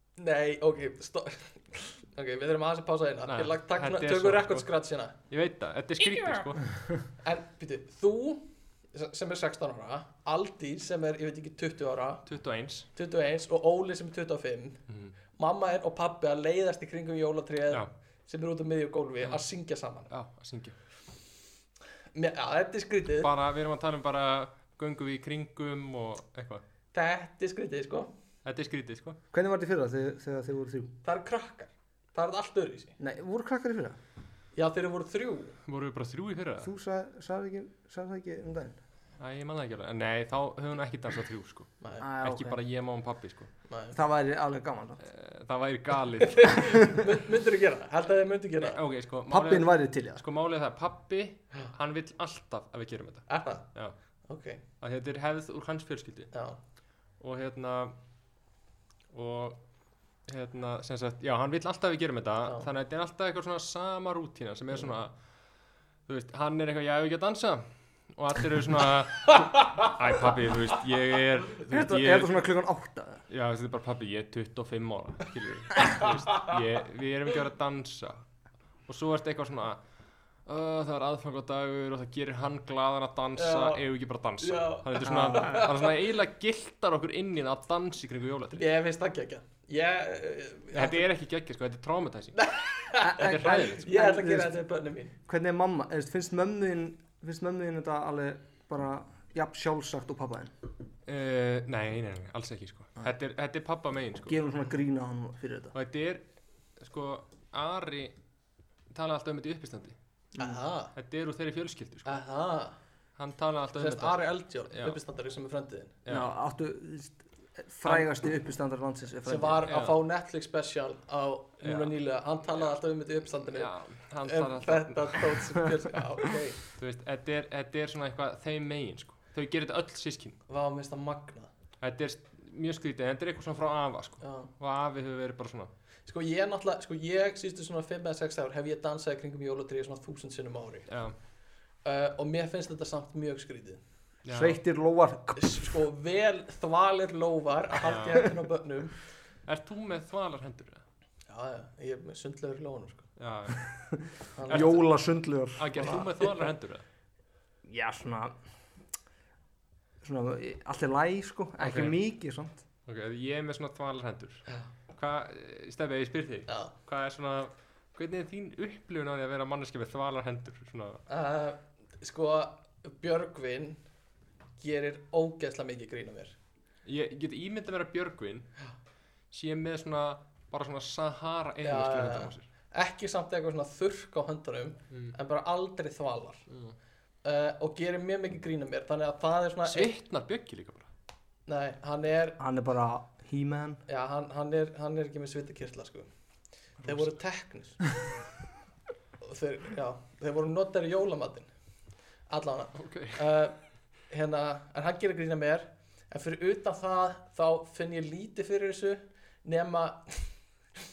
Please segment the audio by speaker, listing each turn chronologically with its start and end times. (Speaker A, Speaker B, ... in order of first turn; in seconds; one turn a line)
Speaker A: 0.2-5.1
Speaker B: 3.3-4.7
Speaker B: 5.3-6.7
Speaker A: 7.2-12.2
Speaker B: 12.3-12.9
Speaker A: 12.9-14.8
Speaker B: 14.9-15.1
Speaker A: 15.4-20.1
Speaker B: 20.1-20.7
Speaker A: 22.1-23.3
Speaker B: 23.2-26.6
Speaker A: 26.9-28.1
Speaker B: 28.4-29.2
Speaker C: 29.3-30.9
Speaker A: 31.0-32.9
Speaker C: 33.0-34.0
Speaker A: 34.5-35.6
Speaker B: 35.6-36.7
Speaker C: 36.6-38.8
Speaker B: 39.2-43.5
Speaker A: 41.8-42.0
Speaker C: 42.0-42.6
Speaker A: 43.7-43.9
Speaker C: 43.9-45.0
Speaker B: 45.0-46.9
Speaker A: 46.2-48.8
Speaker B: 48.6-53.9
Speaker C: 49.3-50.2
Speaker A: 53.3-53.6
Speaker A: 54.3-54.6
Speaker B: 54.8-56.3
Speaker A: 56.3-56.6
Speaker B: 57.2-57.9
Speaker B: 59.1-59.6
Speaker B: 60.2-65.1
Speaker B: 66.1-72.3
Speaker C: 71.7-73.2
Speaker B: 73.3-78.2
Speaker A: 76.0-76.5
Speaker B: 78.9-79.8
Speaker B: 80.5-88.6
Speaker A: 83.3-83.8
Speaker A: 84.4-85.9
Speaker C: 85.0-85.6
Speaker A: 88.5-91.0
Speaker B: 90.7-92.4
Speaker A: 92.3-95.1
Speaker C: 93.0-94.5
Speaker B: 93.2-93.9
Speaker C: 95.2-100.5
Speaker B: 101.0-104.4
Speaker C: 104.3-105.7
Speaker B: 105.7-106.2
Speaker B: 106.8-108.1
Speaker B: 108.9-110.0
Speaker A: 110.4-110.9
Speaker B: 110.9-112.2
Speaker A: 112.0-112.8
Speaker B: 113.2-115.0
Speaker A: 113.8-116.0
Speaker B: 116.0-116.3
Speaker C: 116.1-119.7
Speaker A: 119.2-123.7
Speaker B: 119.7-120.0
Speaker B: 121.6-122.0
Speaker B: 123.5-125.3
Speaker A: 124.2-126.6
Speaker B: 126.7-130.4
Speaker A: 130.5-131.5
Speaker B: 131.8-135.7
Speaker A: 134.2-134.5
Speaker A: 136.1-140.9
Speaker B: 140.9-141.1
Speaker A: 141.8-143.8
Speaker B: 144.2-144.6
Speaker C: 144.3-145.5
Speaker A: 145.3-148.9
Speaker B: 147.8-148.3
Speaker B: 149.4-150.8
Speaker A: 151.3-153.1
Speaker B: 153.2-153.7
Speaker C: 153.7-156.1
Speaker A: 154.3-154.8
Speaker B: 154.5-154.8
Speaker B: 155.6-156.8
Speaker A: 155.8-156.3
Speaker C: 157.6-158.3
Speaker C: 160.0-162.6
Speaker B: 161.6-162.0
Speaker B: 162.9-171.0
Speaker A: 166.5-166.7
Speaker A: 171.1-173.8
Speaker A: 174.6-176.3
Speaker B: 176.8-178.5
Speaker B: 179.3-182.4
Speaker A: 181.6-186.4
Speaker B: 186.5-186.8
Speaker A: 187.2-189.9
Speaker B: 189.7-190.9
Speaker A: 191.5-192.4
Speaker C: 192.4-193.8
Speaker A: 193.9-196.1
Speaker A: 196.8-197.8
Speaker A: 199.2-201.5
Speaker A: 202.3-203.6
Speaker B: 202.8-203.2
Speaker A: 204.1-210.3